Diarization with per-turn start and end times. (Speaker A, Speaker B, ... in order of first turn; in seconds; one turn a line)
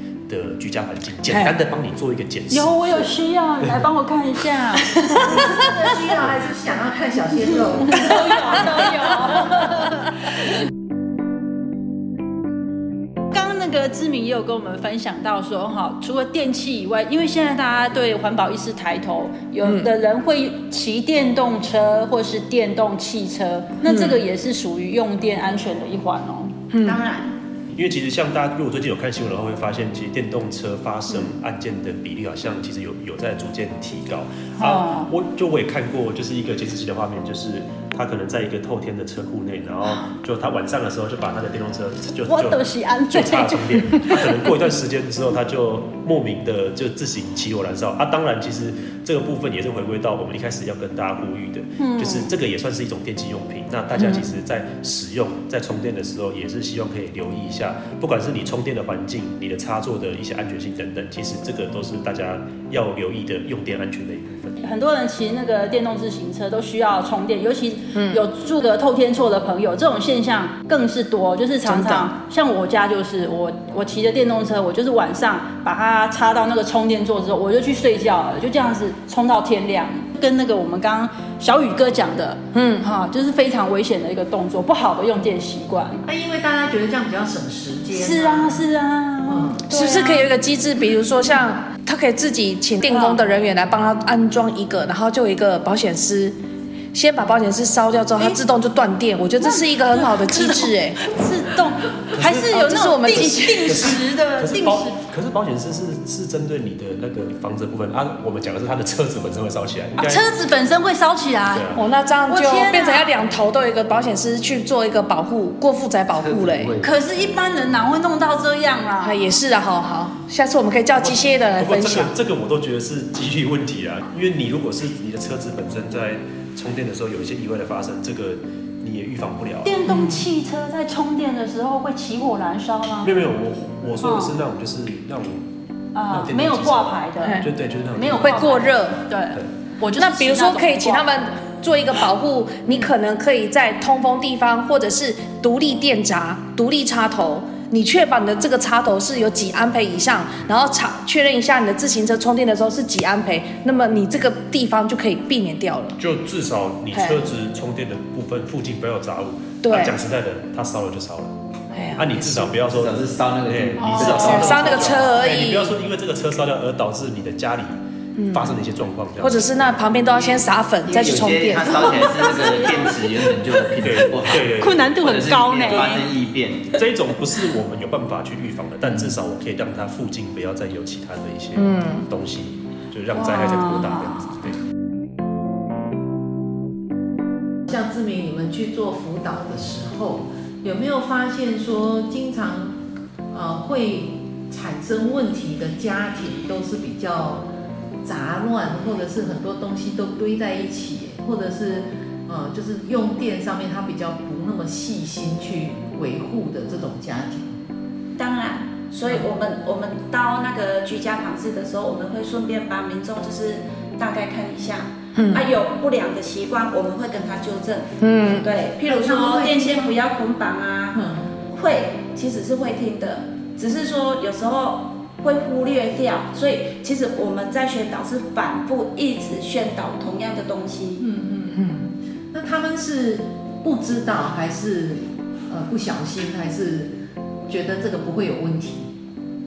Speaker A: 0.3-3.0
Speaker B: 1.3-1.5
Speaker C: 2.5-5.5
Speaker D: 5.1-8.8
Speaker C: 7.9-10.1
Speaker C: 13.3-26.5
Speaker B: 19.6-19.9
Speaker B: 23.8-24.2
Speaker B: 26.7-27.0
Speaker E: 26.8-27.3
Speaker A: 27.7-64.6
Speaker C: 34.6-35.1
Speaker C: 42.2-44.4
Speaker C: 51.8-52.3
Speaker B: 54.0-54.2
Speaker C: 64.6-86.0
Speaker B: 67.9-68.2
Speaker B: 71.7-72.1
Speaker B: 82.5-82.8
Speaker D: 86.0-88.6
Speaker C: 87.9-90.3
Speaker D: 89.2-89.6
Speaker B: 89.7-96.3
Speaker C: 92.9-93.2
Speaker B: 96.9-101.0
Speaker C: 99.4-105.0
Speaker A: 102.1-110.2
Speaker B: 102.5-103.8
Speaker C: 110.0-111.7
Speaker A: 111.5-111.8
Speaker B: 111.7-116.7
Speaker C: 112.3-113.1
Speaker F: 116.2-116.9
Speaker C: 116.8-119.2
Speaker B: 119.0-122.1
Speaker A: 121.0-129.7
Speaker C: 129.6-133.1
Speaker B: 129.9-130.2
Speaker A: 133.0-135.4
Speaker C: 134.0-134.3
Speaker C: 135.9-141.3
Speaker A: 136.1-138.5
Speaker B: 137.2-137.5
Speaker B: 138.1-139.0
Speaker B: 140.0-156.0
Speaker A: 156.0-161.3
Speaker B: 156.9-157.2
Speaker B: 159.6-160.0
Speaker B: 161.7-162.5
Speaker A: 161.9-167.7
Speaker F: 162.7-164.9
Speaker C: 163.8-164.6
Speaker B: 164.0-165.8
Speaker B: 168.2-168.6
Speaker A: 168.3-169.7
Speaker B: 169.2-172.1
Speaker F: 170.8-176.8
Speaker C: 171.8-173.7
Speaker A: 173.8-174.9
Speaker C: 174.4-176.0
Speaker A: 176.7-184.6
Speaker B: 181.6-182.1
Speaker C: 183.1-184.3
Speaker D: 187.7-192.8
Speaker D: 193.3-197.4
Speaker D: 198.0-207.6
Speaker E: 208.2-231.1
Speaker B: 215.2-215.5
Speaker B: 218.0-218.5
Speaker D: 218.8-219.9
Speaker D: 220.9-221.3
Speaker D: 231.0-236.9
Speaker D: 237.5-238.9